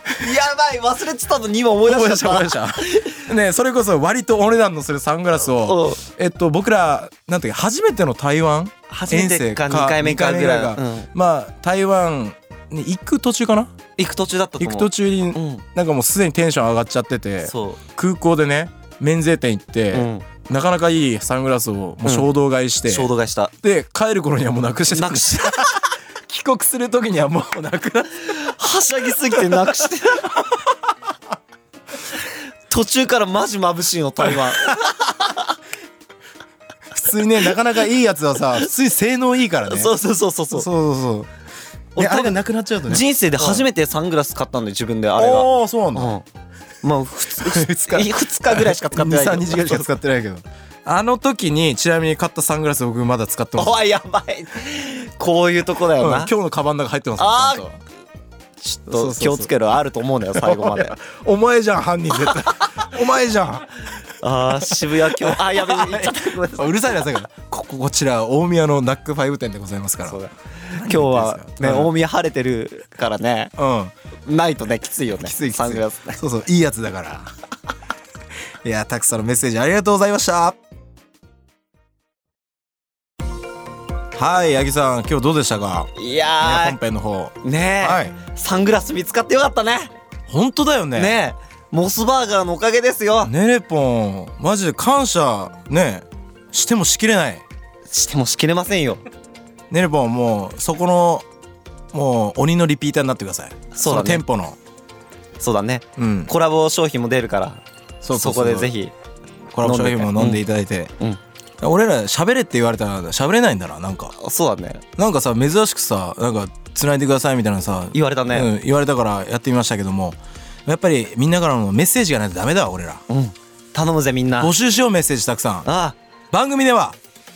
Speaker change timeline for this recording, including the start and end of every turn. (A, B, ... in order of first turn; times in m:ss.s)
0:00.2-0:03.2 A
0:01.8-0:13.7 B
0:05.4-0:06.0 A
0:08.9-0:11.1 A
0:14.0-0:15.6 A
0:14.6-0:23.1 B
0:17.4-0:17.8 A
0:19.9-0:20.2 A
0:22.9-0:23.5 A
0:23.6-0:28.5 B
0:24.9-0:25.7 A
0:28.2-0:30.4 A
0:32.7-0:35.4 A
0:36.9-0:39.9 B
0:39.6-0:40.7 A
0:40.5-0:41.3 B
0:42.0-0:46.2 A
0:42.0-0:43.6 B
0:45.2-0:46.1 B
0:46.8-0:49.9 A
0:47.4-0:53.8 B
0:53.6-0:56.3 A
0:56.0-0:57.8 B
0:57.2-0:57.7 A
0:58.6-0:59.5 B
0:58.9-1:01.0 A
1:00.4-1:03.7 B
1:04.2-1:07.0 A
1:04.7-1:10.2 B
1:10.0-1:13.5 A
1:10.8-1:11.9 B
1:13.6-1:13.9 B
1:14.2-1:16.2 A
1:15.2-1:17.3 B
1:18.6-1:20.6 B
1:24.2-1:28.2 B
1:26.0-1:26.8 A
1:27.4-1:29.9 A
1:30.3-1:31.1 B
1:30.9-1:33.3 A
1:33.2-1:37.4 B
1:37.9-1:39.0 A
1:39.7-1:41.2 B
1:41.9-1:44.6 B
1:43.7-1:44.2 A
1:45.4-1:48.9 A
1:46.0-1:46.3 B
1:48.0-1:48.7 B
1:49.5-1:50.9 B
1:49.6-1:50.4 A
1:51.6-1:54.1 B
1:54.2-1:54.8 A
1:55.0-2:03.0 B
1:57.9-1:58.5 A
2:03.1-2:04.5 A
2:04.4-2:05.7 B
2:05.6-2:06.0 A
2:06.3-2:07.0 B